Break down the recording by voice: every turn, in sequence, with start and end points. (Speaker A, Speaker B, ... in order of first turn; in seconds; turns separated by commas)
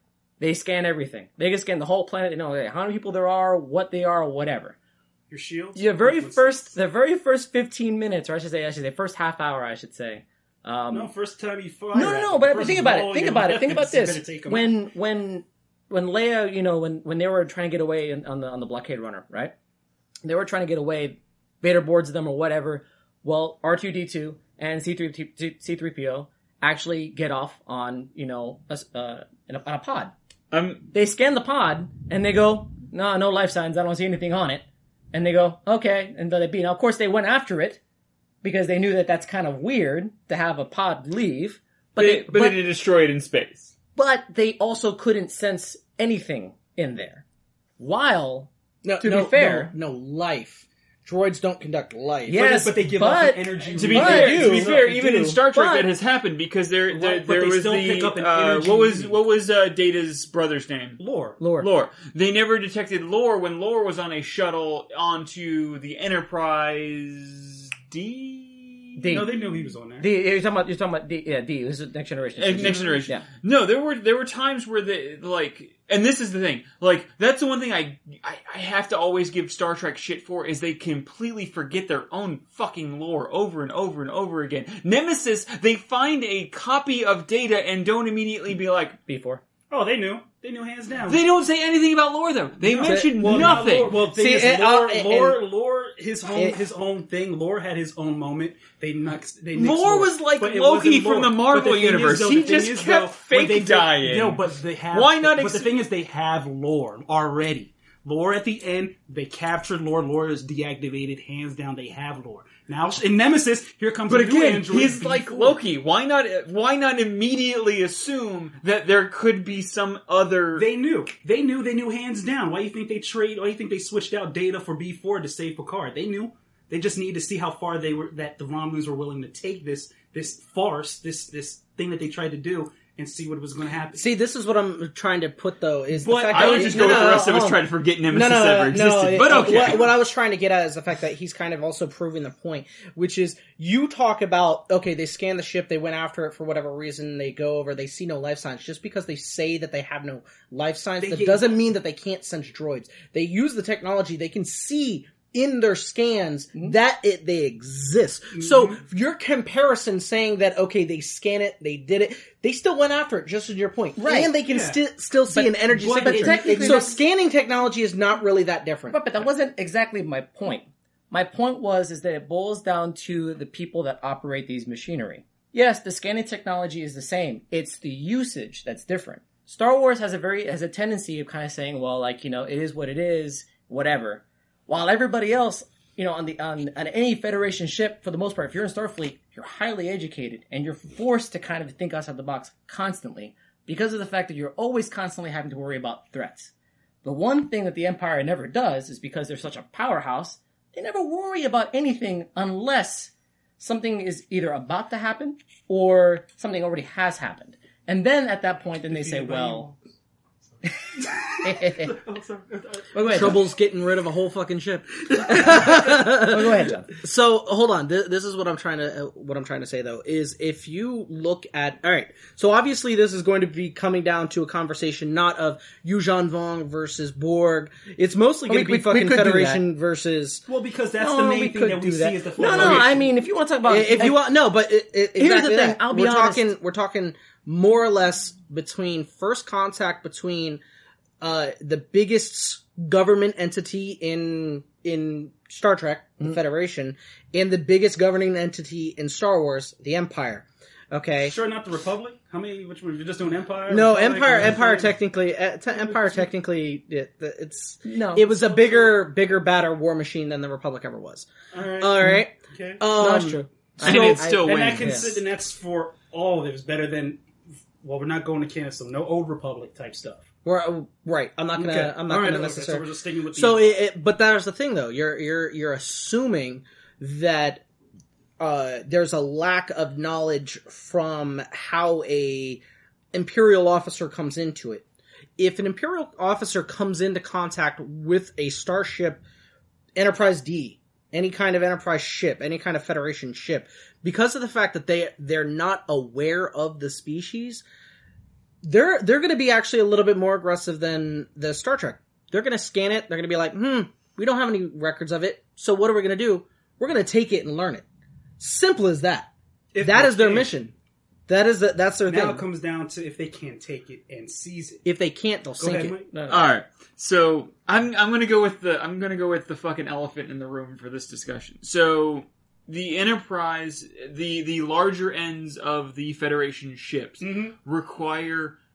Speaker A: 0.4-4.8, Speaker B: 5.3-6.7, Speaker A: 5.8-11.1, Speaker B: 10.9-14.7, Speaker A: 11.9-19.5, Speaker A: 20.2-30.1, Speaker C: 30.5-30.9, Speaker A: 30.9-37.8, Speaker A: 38.4-42.6, Speaker C: 42.0-43.7, Speaker A: 43.9-47.2, Speaker A: 47.8-49.7, Speaker D: 48.8-52.5, Speaker A: 52.2-55.9, Speaker B: 52.3-54.7, Speaker C: 53.7-61.0, Speaker D: 54.0-54.7, Speaker B: 56.9-59.2, Speaker B: 61.0-61.4, Speaker A: 61.4-61.7, Speaker C: 61.6-69.1, Speaker A: 69.0-69.4, Speaker B: 69.1-70.1, Speaker A: 70.0-73.2, Speaker C: 72.3-89.0, Speaker B: 72.5-73.0, Speaker A: 89.0-89.4, Speaker B: 89.7-91.2, Speaker C: 91.1-93.9, Speaker B: 92.6-115.6, Speaker D: 92.8-95.4, Speaker C: 99.5-105.7, Speaker C: 114.1-120.7, Speaker B: 120.5-134.1, Speaker D: 133.9-169.0, Speaker B: 136.0-137.2, Speaker C: 136.3-139.9, Speaker B: 151.0-151.6, Speaker B: 158.3-158.8, Speaker A: 164.0-164.3, Speaker B: 164.4-164.8, Speaker A: 165.3-167.0, Speaker B: 165.7-166.9, Speaker A: 168.9-196.5, Speaker A: 197.0-209.7, Speaker B: 208.9-209.8, Speaker B: 211.0-213.3, Speaker A: 211.4-211.9, Speaker A: 212.9-213.4, Speaker D: 213.1-230.4, Speaker A: 215.5-216.9, Speaker A: 228.5-229.6, Speaker B: 230.5-233.1, Speaker A: 231.0-234.3, Speaker D: 232.5-232.9, Speaker D: 233.6-240.6, Speaker A: 235.2-236.5, Speaker D: 241.2-251.3, Speaker B: 251.2-254.9, Speaker D: 253.7-261.3, Speaker B: 255.7-256.1, Speaker A: 257.9-258.2, Speaker B: 258.3-259.0, Speaker B: 261.5-262.8, Speaker D: 261.8-264.2, Speaker A: 262.9-265.1, Speaker C: 263.8-265.1, Speaker B: 263.9-267.2, Speaker B: 267.8-270.2, Speaker D: 270.4-277.6, Speaker B: 271.5-273.8, Speaker D: 278.4-284.8, Speaker D: 285.4-289.2, Speaker D: 289.9-297.6, Speaker D: 298.6-307.8, Speaker D: 308.4-310.7, Speaker B: 309.7-310.5, Speaker D: 311.3-312.4, Speaker B: 312.1-314.8, Speaker D: 314.8-316.0, Speaker B: 315.6-316.1, Speaker A: 316.1-316.5, Speaker C: 316.3-328.6, Speaker B: 327.2-327.5